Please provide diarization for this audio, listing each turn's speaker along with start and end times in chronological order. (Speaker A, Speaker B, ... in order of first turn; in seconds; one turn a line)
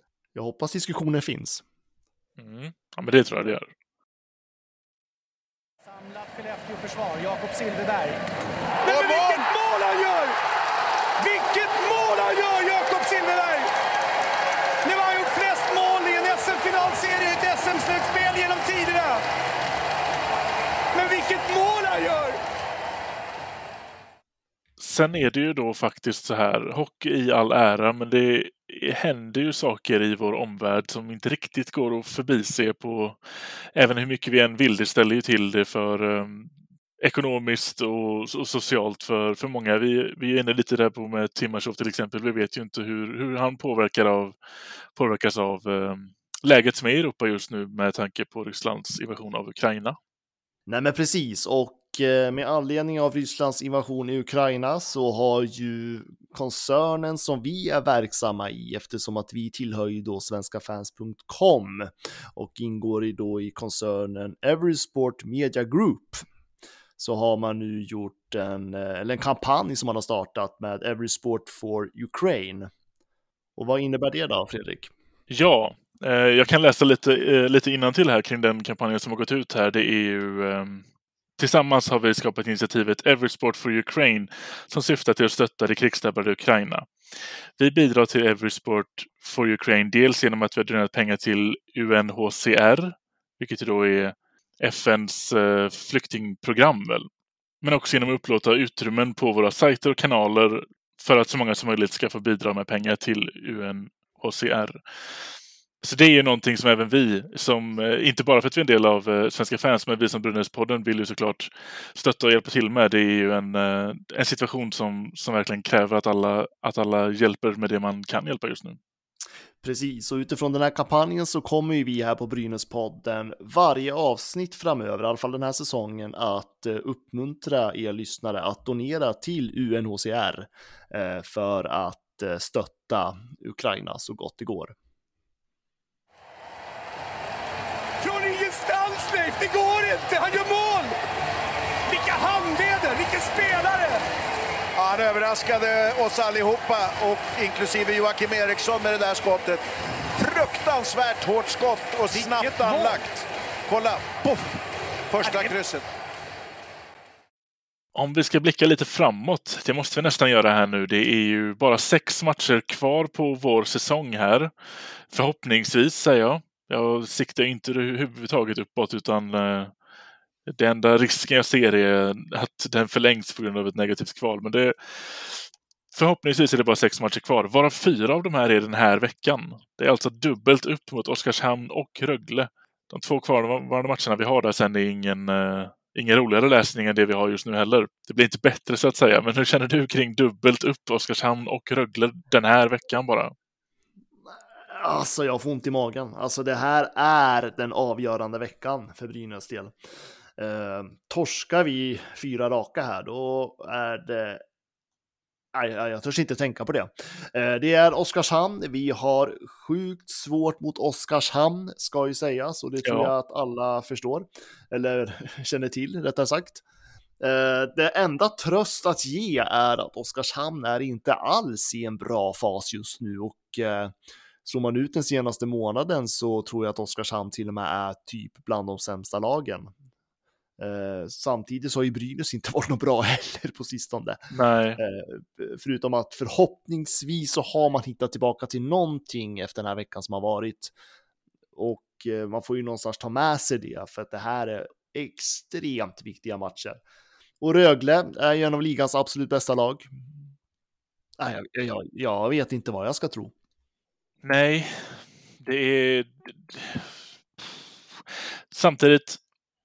Speaker A: 0.3-1.6
Speaker B: 2.4-3.7
Speaker C: 5.8-8.2
Speaker C: 8.8-10.3
Speaker D: 8.9-9.5
Speaker C: 11.2-13.7
Speaker C: 14.8-19.2
Speaker C: 20.9-22.4
Speaker B: 24.8-33.2
Speaker B: 33.8-44.4
Speaker B: 44.9-50.0
Speaker A: 50.7-66.2
Speaker A: 67.0-72.7
Speaker A: 73.6-74.9
Speaker B: 75.3-80.8
Speaker B: 81.4-86.9
Speaker B: 87.6-97.1
Speaker B: 97.6-104.8
Speaker B: 105.8-118.8
Speaker A: 119.6-134.8
Speaker C: 138.0-141.0
Speaker C: 141.9-144.0
Speaker D: 144.8-149.6
Speaker D: 150.2-154.5
Speaker C: 152.1-153.0
Speaker D: 155.1-155.8
Speaker C: 155.2-155.6
Speaker B: 157.9-164.5
Speaker B: 165.1-169.7
Speaker B: 170.5-193.3
Speaker A: 194.3-199.8
Speaker A: 200.4-204.4
Speaker A: 205.5-216.6
Speaker B: 212.8-213.1
Speaker A: 217.2-229.7
Speaker A: 230.6-234.2
Speaker B: 234.3-234.8
Speaker A: 234.8-240.7
Speaker A: 241.6-246.8
Speaker A: 247.4-250.0
Speaker A: 251.2-253.3
Speaker B: 254.2-259.2